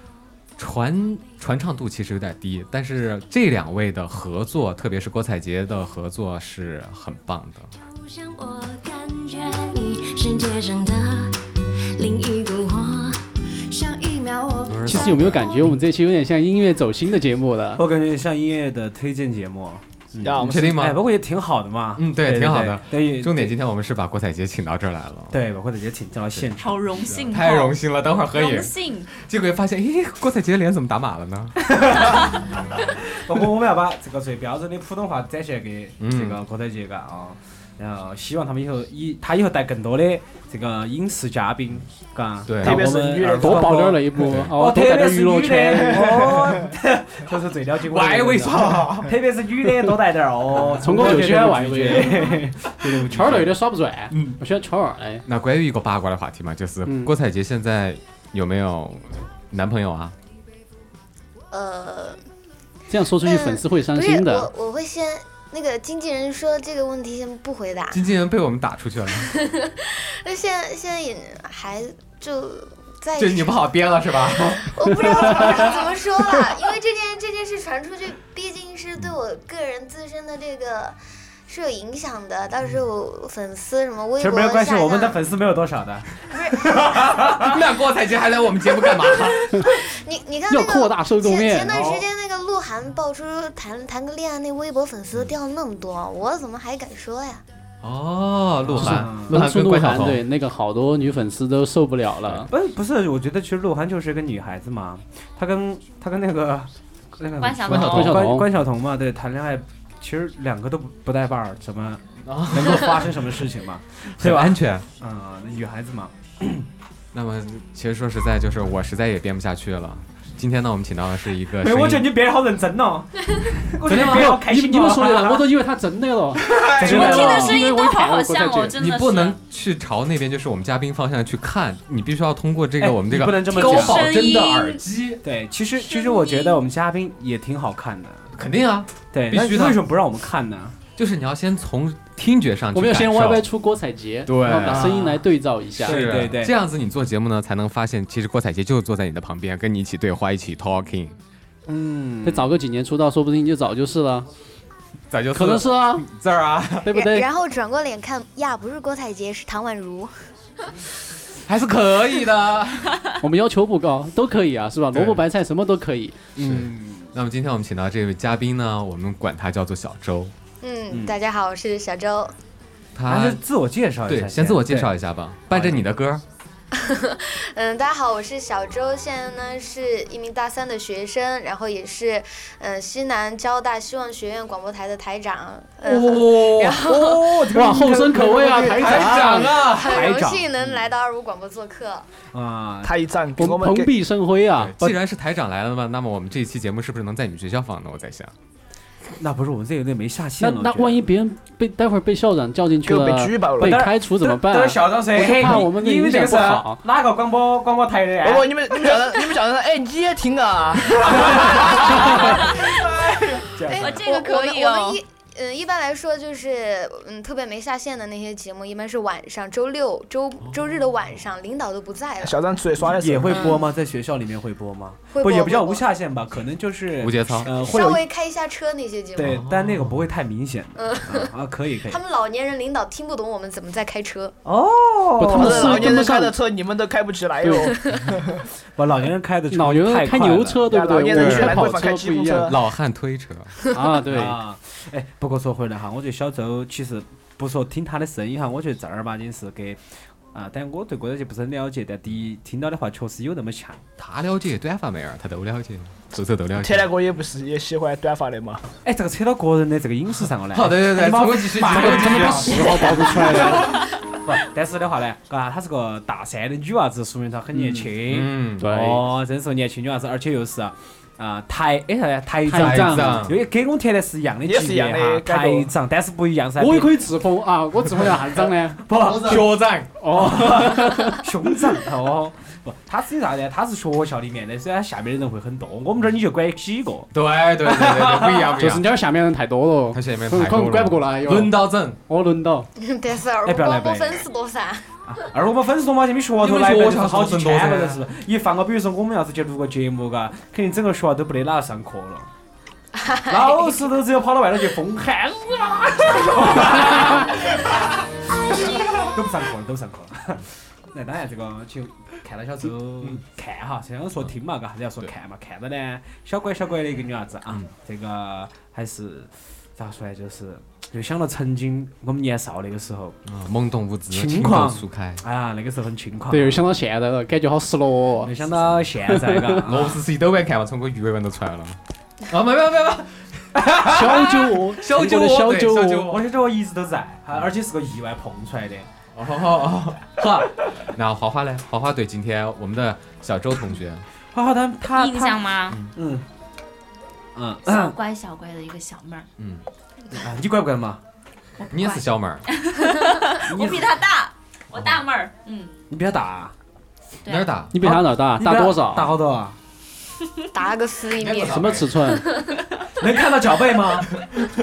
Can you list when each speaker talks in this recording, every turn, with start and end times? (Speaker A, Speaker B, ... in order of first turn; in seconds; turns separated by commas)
Speaker A: 0.6-7.7, Speaker B: 7.9-11.4, Speaker B: 11.9-14.9, Speaker A: 14.7-15.7, Speaker C: 14.8-17.8, Speaker D: 17.8-23.5, Speaker E: 20.2-20.8, Speaker A: 20.4-21.0, Speaker A: 22.0-25.4, Speaker D: 25.3-26.7, Speaker A: 26.4-32.6, Speaker F: 26.6-27.8, Speaker F: 28.3-29.1, Speaker D: 31.6-44.0, Speaker A: 36.0-36.4, Speaker A: 42.5-42.9, Speaker E: 42.6-44.0, Speaker C: 43.4-46.1, Speaker D: 44.5-53.5, Speaker E: 46.0-46.6, Speaker A: 47.8-49.1, Speaker C: 50.7-55.2, Speaker A: 54.1-54.4, Speaker A: 55.3-60.1, Speaker C: 56.9-57.1, Speaker G: 61.5-62.2, Speaker C: 62.9-64.5, Speaker G: 63.2-68.0, Speaker A: 67.9-69.4, Speaker G: 69.2-73.6, Speaker A: 73.2-75.6, Speaker G: 74.4-81.0, Speaker G: 81.5-85.2, Speaker D: 84.2-87.6, Speaker A: 87.1-89.7, Speaker G: 89.7-97.4, Speaker C: 90.5-91.8, Speaker D: 91.7-92.1, Speaker A: 97.8-100.2, Speaker D: 98.7-99.4, Speaker C: 98.8-102.5, Speaker D: 102.5-116.7, Speaker F: 107.4-108.2, Speaker A: 107.7-108.2, Speaker C: 107.7-108.5, Speaker A: 112.2-113.2, Speaker A: 114.2-114.9, Speaker A: 117.1-122.1, Speaker D: 121.6-125.5, Speaker A: 123.8-124.4, Speaker C: 124.0-128.7, Speaker D: 126.5-127.6, Speaker F: 126.9-129.4, Speaker A: 128.8-135.2, Speaker D: 132.8-134.2, Speaker F: 133.5-134.8, Speaker D: 135.2-138.3, Speaker F: 135.8-136.6, Speaker A: 138.3-139.8, Speaker D: 139.1-140.8, Speaker A: 141.0-143.5, Speaker C: 142.7-146.0, Speaker A: 144.3-145.2, Speaker D: 144.6-145.2, Speaker D: 145.8-146.6, Speaker A: 145.8-151.2, Speaker D: 151.7-152.5, Speaker C: 152.2-154.3, Speaker A: 155.1-156.9, Speaker C: 155.3-156.1, Speaker C: 156.8-157.3, Speaker G: 156.9-160.1, Speaker A: 161.4-163.1, Speaker C: 163.2-166.2, Speaker A: 164.9-165.2, Speaker D: 166.4-167.1, Speaker A: 166.4-170.3, Speaker G: 170.6-172.3, Speaker D: 170.9-171.2, Speaker A: 172.9-173.4, Speaker D: 173.1-174.9, Speaker A: 174.1-176.2, Speaker D: 175.5-175.8, Speaker G: 176.7-187.5, Speaker D: 185.8-190.8, Speaker A: 186.2-186.6, Speaker C: 187.5-189.5, Speaker A: 188.7-190.1, Speaker G: 189.6-192.1, Speaker D: 192.3-192.9, Speaker E: 192.8-193.9, Speaker C: 193.4-194.9, Speaker A: 194.6-198.3, Speaker D: 199.2-201.0, Speaker C: 200.4-206.8, Speaker E: 202.8-203.9, Speaker D: 203.6-208.5, Speaker E: 208.2-212.8, Speaker D: 211.1-212.3, Speaker F: 212.2-212.7, Speaker D: 213.4-214.0, Speaker G: 213.7-222.4, Speaker F: 213.8-215.0, Speaker E: 222.2-223.6, Speaker D: 222.9-228.1, Speaker G: 223.3-223.6, Speaker G: 225.1-225.8, Speaker A: 227.0-227.5, Speaker G: 227.5-229.4, Speaker D: 229.2-232.0, Speaker A: 229.3-230.0, Speaker G: 230.8-231.3, Speaker G: 231.9-234.3, Speaker D: 234.4-235.9, Speaker C: 235.2-236.3, Speaker E: 235.3-238.4, Speaker C: 237.4-237.7, Speaker D: 238.8-240.7, Speaker C: 239.5-242.5, Speaker E: 240.6-242.6, Speaker A: 241.1-241.6, Speaker A: 242.5-243.6, Speaker C: 243.7-244.4, Speaker D: 244.1-249.8, Speaker D: 250.3-253.8, Speaker A: 254.0-256.9, Speaker E: 256.6-258.6, Speaker D: 258.9-277.0, Speaker A: 260.5-262.9, Speaker C: 261.7-263.7, Speaker A: 267.6-268.6, Speaker C: 268.6-269.1, Speaker C: 272.5-273.3, Speaker A: 272.5-273.4, Speaker E: 274.4-275.7, Speaker C: 276.6-278.8, Speaker D: 278.8-279.6, Speaker A: 279.0-279.9, Speaker C: 280.0-281.2, Speaker D: 280.1-287.1, Speaker A: 287.1-288.9, Speaker D: 287.7-288.5, Speaker C: 288.6-292.7, Speaker A: 289.9-292.0, Speaker G: 292.8-294.9, Speaker D: 293.4-294.2, Speaker D: 295.1-302.3, Speaker A: 296.4-298.0, Speaker G: 303.0-303.9, Speaker D: 303.3-307.8, Speaker D: 308.5-323.2, Speaker A: 323.3-325.2, Speaker D: 324.1-326.6, Speaker C: 326.3-328.3, Speaker D: 328.2-330.0, Speaker A: 328.6-328.9, Speaker C: 329.1-329.6, Speaker A: 329.6-336.2, Speaker C: 333.9-336.1, Speaker D: 336.0-338.9, Speaker A: 339.1-344.1, Speaker D: 344.3-346.2, Speaker F: 344.9-345.8, Speaker D: 347.4-348.0, Speaker F: 347.7-349.3, Speaker A: 349.4-349.6, Speaker D: 350.1-351.0, Speaker F: 351.6-355.7, Speaker A: 351.7-352.5, Speaker D: 353.5-353.9, Speaker D: 355.9-356.5, Speaker F: 357.2-357.6, Speaker A: 357.3-357.7, Speaker C: 357.7-359.1, Speaker D: 357.8-359.6, Speaker G: 360.5-362.6, Speaker A: 361.1-361.9, Speaker C: 361.4-362.2, Speaker D: 363.0-364.1